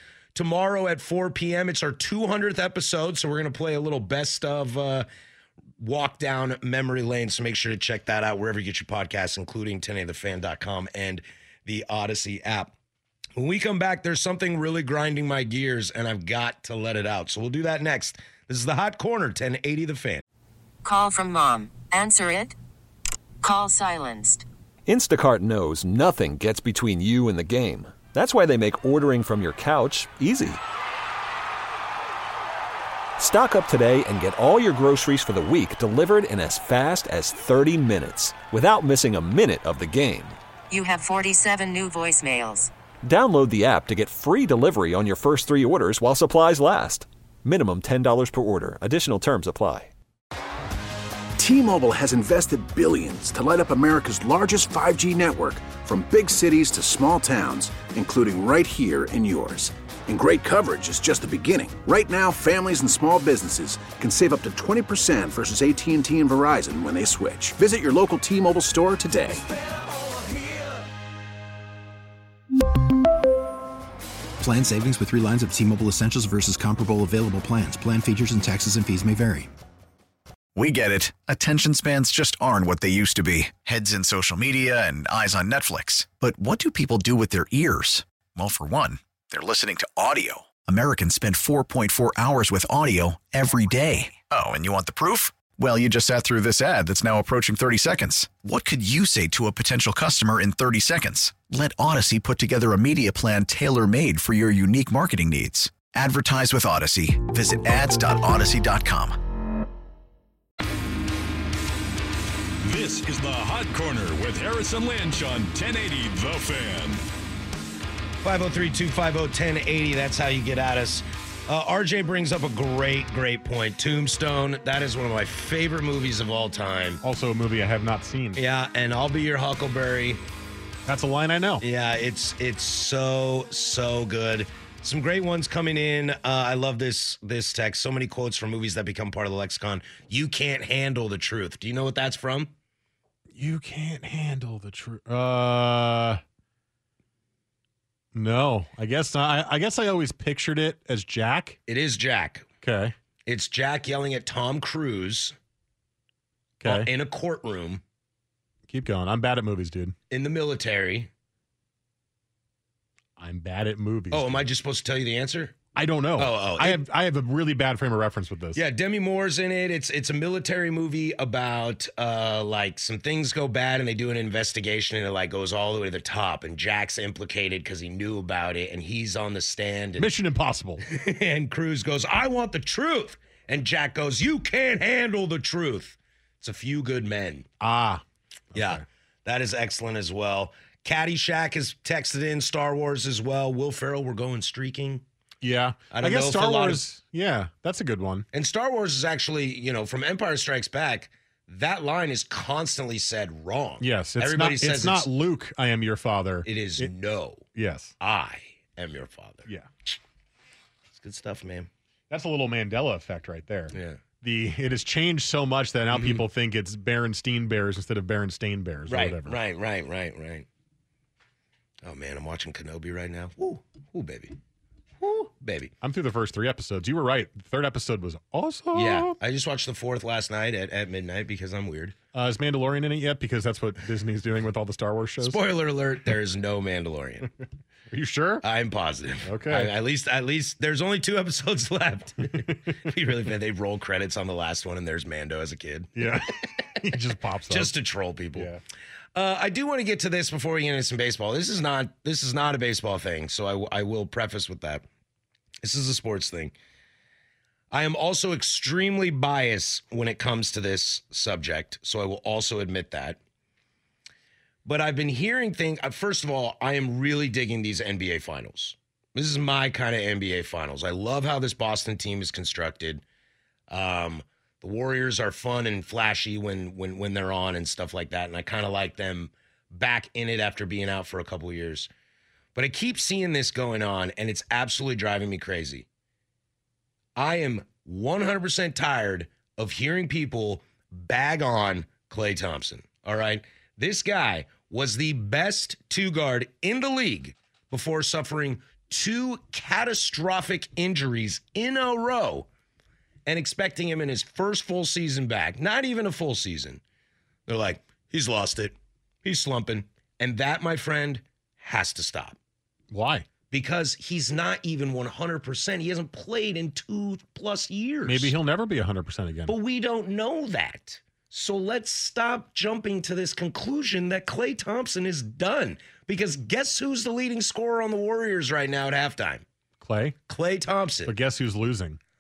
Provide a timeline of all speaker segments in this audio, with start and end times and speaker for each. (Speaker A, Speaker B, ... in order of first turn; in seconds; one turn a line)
Speaker A: 0.3-5.1
Speaker A: 5.8-12.7
Speaker A: 13.4-20.2
Speaker B: 20.8-22.6
Speaker B: 23.4-24.4
Speaker C: 24.9-30.6
Speaker C: 33.2-40.4
Speaker B: 40.7-42.7
Speaker C: 43.0-49.9
Speaker D: 51.4-69.4
Speaker E: 74.4-79.5
Speaker F: 80.5-109.2
Speaker G: 112.6-117.0
Speaker A: 118.2-127.0
Speaker H: 127.0-128.4
Speaker A: 128.4-130.2
Speaker H: 130.9-131.6
Speaker A: 131.6-142.5
Speaker H: 143.3-146.2
Speaker H: 148.1-151.6
Speaker A: 151.7-152.5
Speaker H: 152.6-152.9
Speaker A: 153.3-155.3
Speaker H: 156.6-156.9
Speaker A: 156.6-157.8
Speaker H: 158.7-159.9
Speaker A: 160.1-161.1
Speaker H: 163.2-164.5
Speaker A: 164.1-165.6
Speaker H: 165.8-168.6
Speaker A: 166.2-166.8
Speaker A: 168.6-180.1
Speaker H: 180.0-180.8
Speaker A: 180.9-187.5
Speaker H: 187.6-188.0
Speaker H: 188.5-188.8
Speaker A: 188.6-195.0
Speaker H: 195.4-198.3
Speaker A: 195.9-196.8
Speaker A: 198.3-205.1
Speaker H: 203.8-206.9
Speaker A: 206.4-207.5
Speaker H: 207.6-207.9
Speaker A: 208.0-209.9
Speaker A: 210.9-211.7
Speaker H: 212.1-219.4
Speaker A: 213.7-214.0
Speaker A: 215.9-216.2
Speaker A: 218.9-220.5
Speaker A: 221.8-224.4
Speaker A: 225.0-225.7
Speaker H: 225.8-229.1
Speaker A: 228.7-231.9
Speaker H: 232.1-235.4
Speaker A: 235.2-237.3
Speaker H: 237.9-238.4
Speaker A: 238.4-246.2
Speaker H: 239.3-239.7
Speaker H: 246.0-247.7
Speaker A: 247.5-248.5
Speaker H: 248.3-248.6
Speaker A: 249.2-254.8
Speaker A: 255.6-256.6
Speaker A: 257.7-263.2
Speaker A: 264.6-273.0
Speaker A: 273.7-281.9
Speaker A: 282.6-285.9
Speaker A: 287.2-302.5
Speaker A: 303.3-306.8
Speaker A: 307.5-312.4
Speaker H: 312.9-313.3
Speaker A: 313.5-318.3
Speaker H: 318.1-319.6
Speaker A: 319.5-329.4
Speaker H: 329.8-330.2
Speaker A: 330.3-331.1
Speaker H: 331.1-332.0